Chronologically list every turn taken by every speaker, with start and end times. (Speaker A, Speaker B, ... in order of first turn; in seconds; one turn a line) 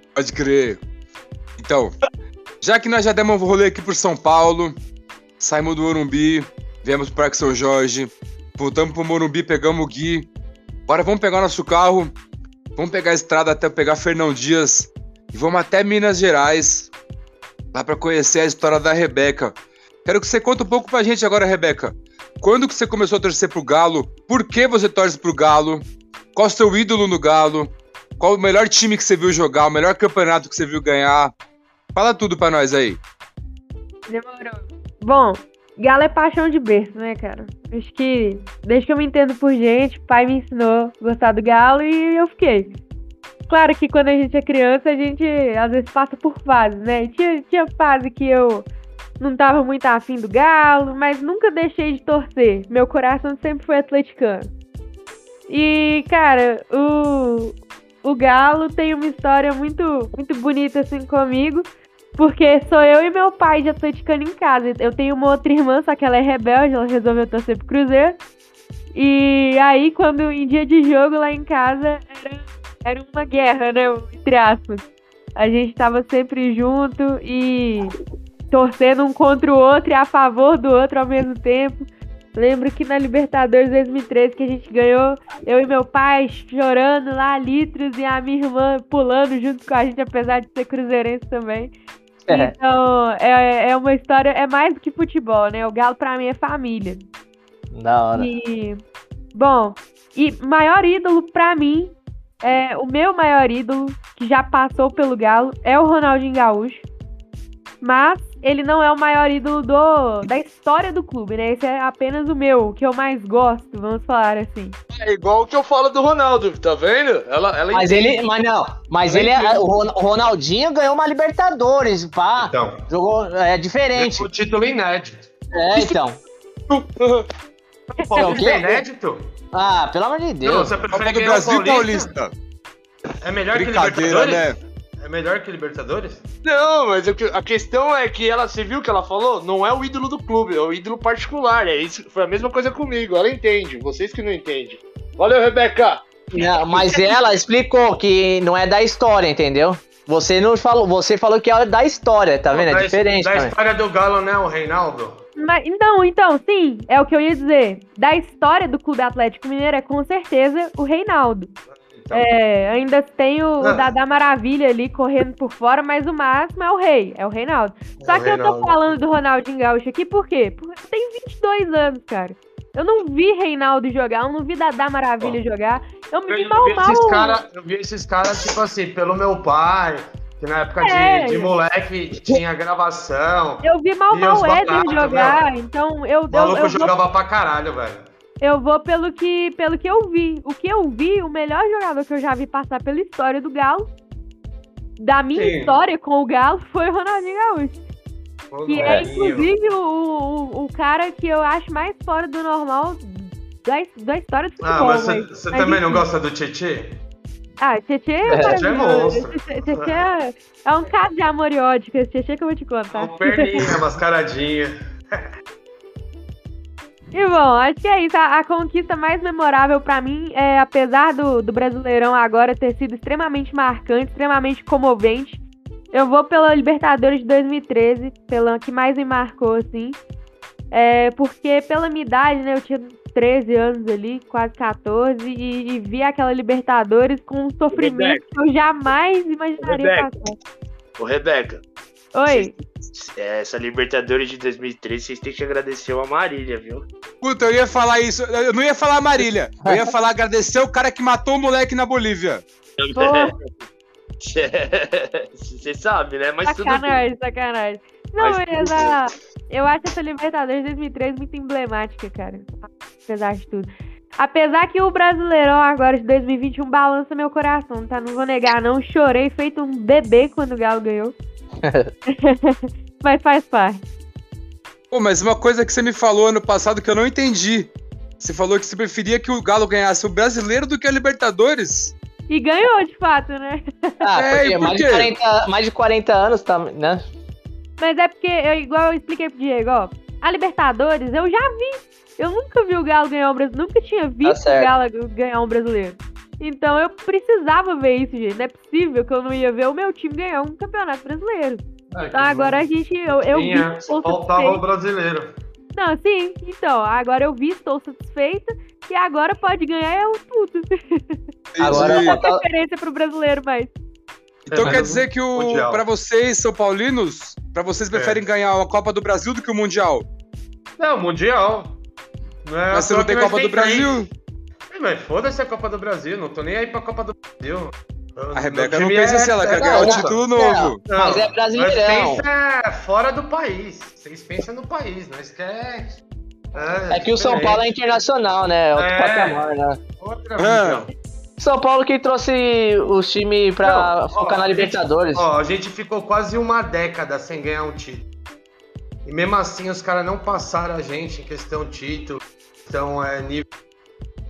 Speaker A: 0.2-0.8
Speaker A: 1.6-2.0
Speaker A: 2.6-4.8
Speaker A: 5.4-10.3
Speaker A: 10.9-12.2
Speaker A: 12.8-16.9
Speaker A: 17.7-31.3
Speaker A: 31.9-33.0
Speaker B: 34.1-42.8
Speaker B: 43.5-48.7
Speaker B: 49.2-54.5
Speaker B: 55.5-68.2
Speaker B: 68.9-77.9
Speaker B: 78.5-91.7
Speaker C: 92.3-92.5
Speaker B: 92.3-97.1
Speaker C: 97.7-98.3
Speaker B: 98.1-98.8
Speaker B: 99.3-106.8
Speaker B: 107.8-114.8
Speaker D: 114.9-118.2
Speaker C: 117.7-124.3
Speaker D: 119.0-119.6
Speaker E: 122.4-122.8
Speaker E: 124.0-125.3
Speaker C: 125.5-126.2
Speaker D: 126.7-127.3
Speaker E: 127.9-129.2
Speaker B: 128.0-128.6
Speaker C: 128.2-128.8
Speaker C: 129.5-130.8
Speaker E: 130.4-132.1
Speaker A: 130.9-132.3
Speaker E: 133.2-136.3
Speaker A: 133.5-134.6
Speaker D: 136.4-147.2
Speaker C: 146.3-153.5
Speaker E: 152.5-155.2
Speaker B: 155.4-161.5
Speaker E: 161.7-162.3
Speaker B: 162.1-177.4
Speaker E: 163.6-163.9
Speaker E: 168.0-169.0
Speaker E: 176.3-185.5
Speaker B: 180.8-181.5
Speaker B: 183.6-186.9
Speaker E: 186.3-188.1
Speaker B: 188.4-193.9
Speaker B: 195.0-197.8
Speaker E: 195.3-195.8
Speaker E: 198.5-199.5
Speaker B: 198.7-206.1
Speaker E: 204.6-207.0
Speaker B: 207.6-213.7
Speaker C: 208.3-208.6
Speaker E: 208.4-210.1
Speaker E: 212.9-214.7
Speaker B: 217.1-225.4
Speaker B: 225.9-230.0
Speaker B: 230.7-240.4
Speaker D: 237.7-238.2
Speaker D: 239.6-240.2
Speaker D: 241.0-241.6
Speaker B: 242.1-242.6
Speaker D: 242.3-246.8
Speaker A: 247.2-252.4
Speaker C: 249.6-249.9
Speaker D: 252.8-253.5
Speaker B: 252.9-253.3
Speaker D: 254.2-257.0
Speaker B: 256.4-271.1
Speaker D: 258.2-259.0
Speaker C: 271.6-271.9
Speaker B: 272.1-273.8
Speaker A: 274.9-281.9
Speaker B: 282.3-284.1
Speaker C: 284.0-287.0
Speaker A: 284.2-285.1
Speaker B: 287.8-304.6
Speaker C: 294.2-294.7
Speaker E: 301.9-305.3
Speaker B: 305.7-311.2
Speaker A: 311.5-312.2
Speaker C: 311.6-312.4
Speaker B: 311.7-313.7
Speaker E: 314.5-315.8
Speaker A: 314.5-320.1
Speaker E: 317.9-318.2
Speaker E: 320.8-321.7
Speaker E: 322.4-324.1
Speaker A: 322.7-324.1
Speaker E: 324.7-330.2
Speaker A: 328.3-330.8
Speaker C: 329.5-332.2
Speaker E: 330.9-336.0
Speaker E: 336.5-337.8
Speaker C: 336.9-339.8
Speaker E: 338.8-339.5
Speaker E: 340.0-340.9
Speaker A: 340.4-340.9
Speaker C: 341.4-345.3
Speaker E: 343.6-348.1
Speaker E: 349.1-353.5